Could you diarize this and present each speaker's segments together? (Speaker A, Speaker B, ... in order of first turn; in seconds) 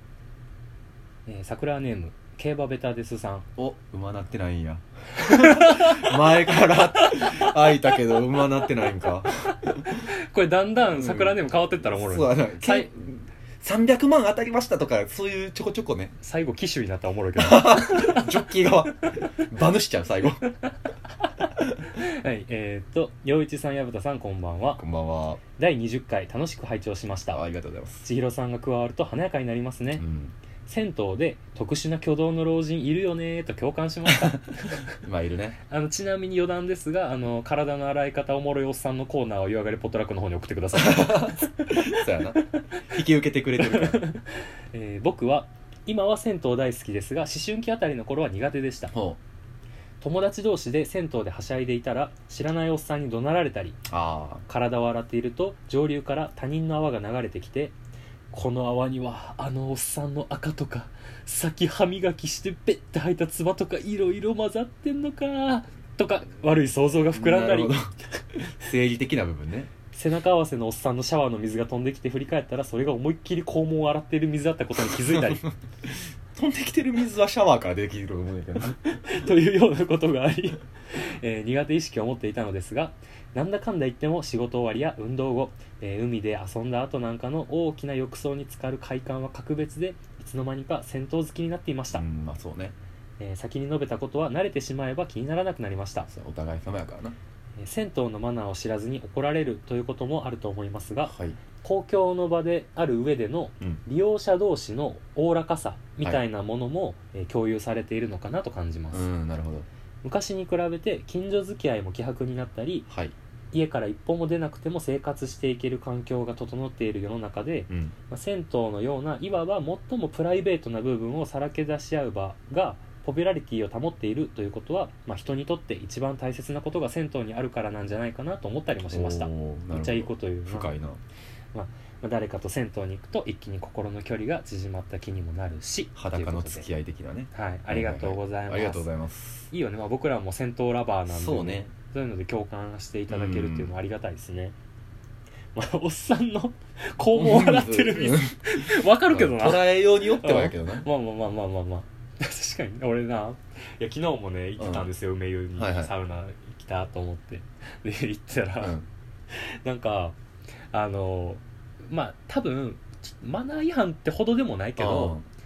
Speaker A: 1.2-3.5, 5.2-6.3, 7.0-7.5, 9.9-12.9, 16.2-18.5, 21.9-24.8, 25.6-27.4, 28.0-30.0, 30.6-34.9, 35.7-42.6, 43.6-48.9, 50.0-53.8, 54.5-57.7, 58.3-67.8, 69.9-75.5, 78.9-92.0, 93.2-96.1, 97.6-109.1, 110.0-112.9, 113.5-130.7, 131.5-136.7, 137.3-138.8, 139.5-144.5, 145.5-158.8, 159.3-160.2, 160.7-165.2
Speaker B: 3.6-10.1, 10.9-16.1, 17.4-20.4, 21.6-21.8, 24.8-25.4, 27.3-28.0, 30.0-30.3, 34.1-34.4, 34.9-35.6, 40.7-44.0, 48.9-49.2, 53.9-54.4, 67.1-69.7, 74.9-78.8, 91.9-92.7, 96.1-97.1, 101.1-101.4, 108.9-109.7, 128.9-131.0, 135.9-139.5, 141.1-141.7, 143.1-143.7, 147.1-150.8, 154.6-154.9, 155.6-155.9, 158.6-158.8, 164.8-165.2